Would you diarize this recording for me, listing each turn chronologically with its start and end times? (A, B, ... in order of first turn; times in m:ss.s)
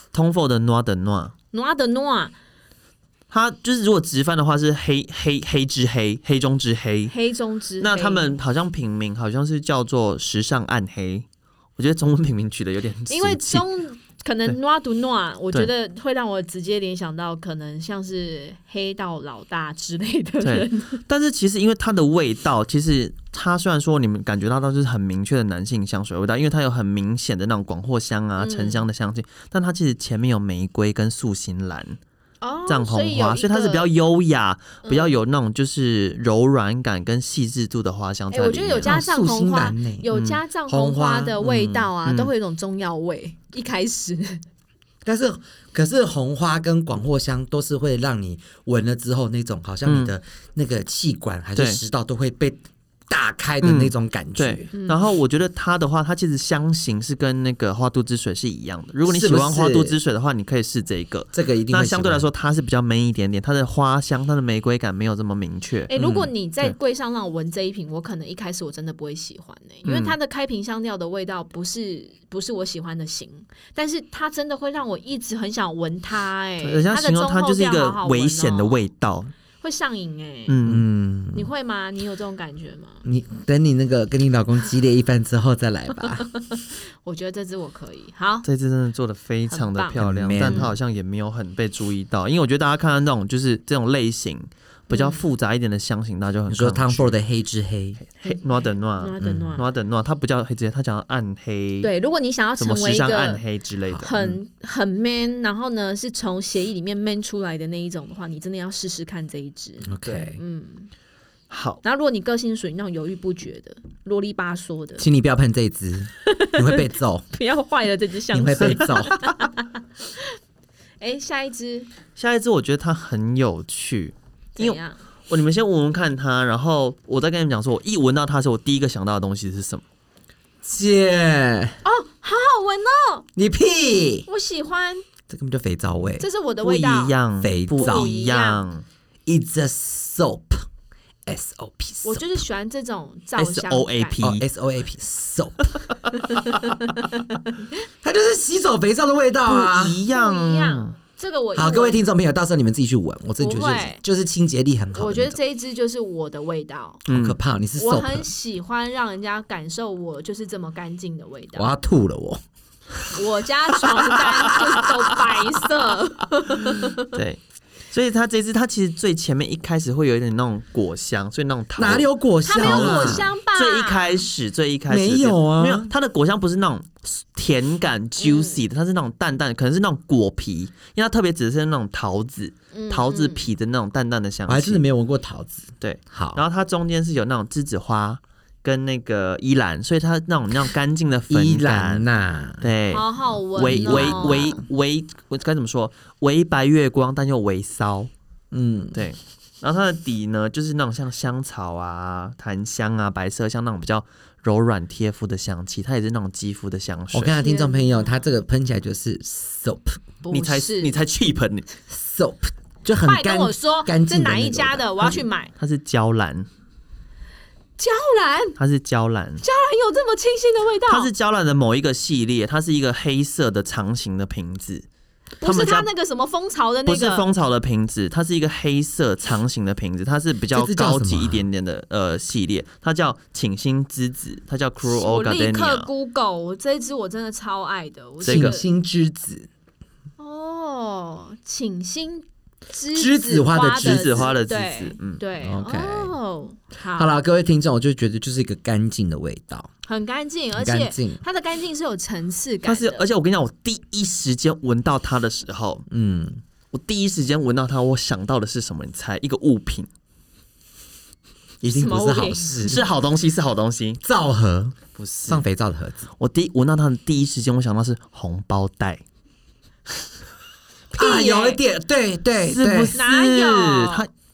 0:00.1-0:01.3 A
0:01.5-0:02.4 B
0:03.3-0:07.2 A
0:07.1-0:08.2 B
0:07.8-0:11.3 A
0:11.8-0:13.6 A
0:13.1-0:21.0 B
0:20.4-0:32.0 A
0:28.4-0:28.8 B
0:32.4-0:33.9 B
0:32.7-0:39.0 A
0:34.8-0:35.1 B
0:38.3-0:44.4 B
0:38.8-0:40.1 C
0:40.1-0:40.4 A
0:40.7-0:41.9 C
0:42.0-0:42.3 A
0:45.0-0:54.7 C
0:49.9-0:50.1 A
0:53.6-1:05.9 A
0:54.7-0:55.0 B
0:59.1-1:00.0 C
1:01.3-1:02.3 C
1:05.9-1:18.8 B
1:06.0-1:06.3 C
1:09.8-1:10.2 A
1:16.6-1:19.3 A
1:19.6-1:20.6 B
1:20.5-1:20.9 A
1:20.6-1:21.5 C
1:21.3-1:23.0 B
1:23.0-1:26.3 C
1:26.1-1:28.5 B
1:28.4-1:37.1 A
1:29.5-1:30.7 B
1:30.0-1:30.7 C
1:34.9-1:35.3 B
1:36.5-1:38.0 C
1:38.0-1:41.9 A
1:38.2-1:39.7 B
1:39.2-1:39.6 C
1:41.8-1:43.4 B
1:42.6-1:44.4 A
1:44.0-1:50.9 B
1:49.9-1:50.4 C
1:51.5-1:51.8 A
1:51.8-1:55.1 B
1:55.0-1:57.3 C
1:56.2-2:00.3 B
1:58.3-1:59.2 C
2:01.0-2:01.9 B
2:02.2-2:09.8 A
2:04.6-2:05.0 B
2:10.6-2:11.8 C
2:11.8-2:13.3 B
2:13.4-2:14.3 C
2:14.3-2:15.0 B
2:15.3-2:16.2 C
2:16.2-2:17.2 B
2:16.6-2:18.8 A
2:17.4-2:18.1 C
2:17.7-2:18.6 B
2:19.3-2:20.7 C
2:21.3-2:22.4 C
2:22.0-2:24.2 B
2:23.4-2:24.4 A
2:24.2-2:25.8 C
2:28.0-2:30.0 C
2:29.5-2:31.0 A
2:30.1-2:32.0 B
2:31.6-2:35.4 C
2:33.4-2:34.0 B
2:34.9-2:37.0 B
2:37.1-2:37.4 A
2:37.1-2:38.3 C
2:37.8-2:41.7 B
2:41.6-2:42.4 C
2:43.1-2:47.1 B
2:43.8-2:44.9 C
2:47.0-2:47.4 A
2:47.9-3:04.8 A
2:51.8-2:53.3 C
2:52.4-2:54.3 B
2:54.9-2:55.9 C
2:58.2-2:58.6 B
3:02.7-3:03.5 B
3:04.5-3:06.4 C
3:05.8-3:12.1 A
3:11.3-3:12.7 C
3:12.6-3:18.1 A
3:12.9-3:14.6 B
3:13.6-3:14.5 C
3:18.5-3:19.0 C
3:18.9-3:27.4 A
3:27.1-3:30.0 C
3:27.4-3:28.2 B
3:30.2-3:30.9 B
3:30.3-3:31.7 A
3:31.9-3:35.1 C
3:33.0-3:35.5 B
3:35.6-3:36.5 A
3:37.8-3:38.6 B
3:38.6-3:39.4 A
3:39.4-3:41.1 B
3:40.9-3:44.9 A
3:45.4-3:47.2 B
3:45.4-3:45.9 A
3:46.9-3:55.9 A
3:50.5-3:51.4 C
3:54.8-3:58.7 B
3:58.2-3:58.6 A
3:58.2-3:59.5 C
4:00.2-4:07.1 B
4:02.9-4:04.3 C
4:03.8-4:05.2 A
4:05.4-4:06.1 C
4:07.0-4:09.7 C
4:09.9-4:13.1 B
4:10.6-4:11.2 C
4:12.7-4:15.9 A
4:15.9-4:16.4 C
4:16.7-4:19.9 A
4:21.6-4:22.8 C
4:21.7-4:22.6 B
4:22.6-4:24.0 A
4:24.0-4:24.8 C
4:25.0-4:25.4 A
4:25.3-4:26.1 C
4:26.2-4:29.0 A
4:30.9-4:31.6 B
4:30.9-4:33.0 C
4:32.5-4:34.1 A
4:32.9-4:34.1 B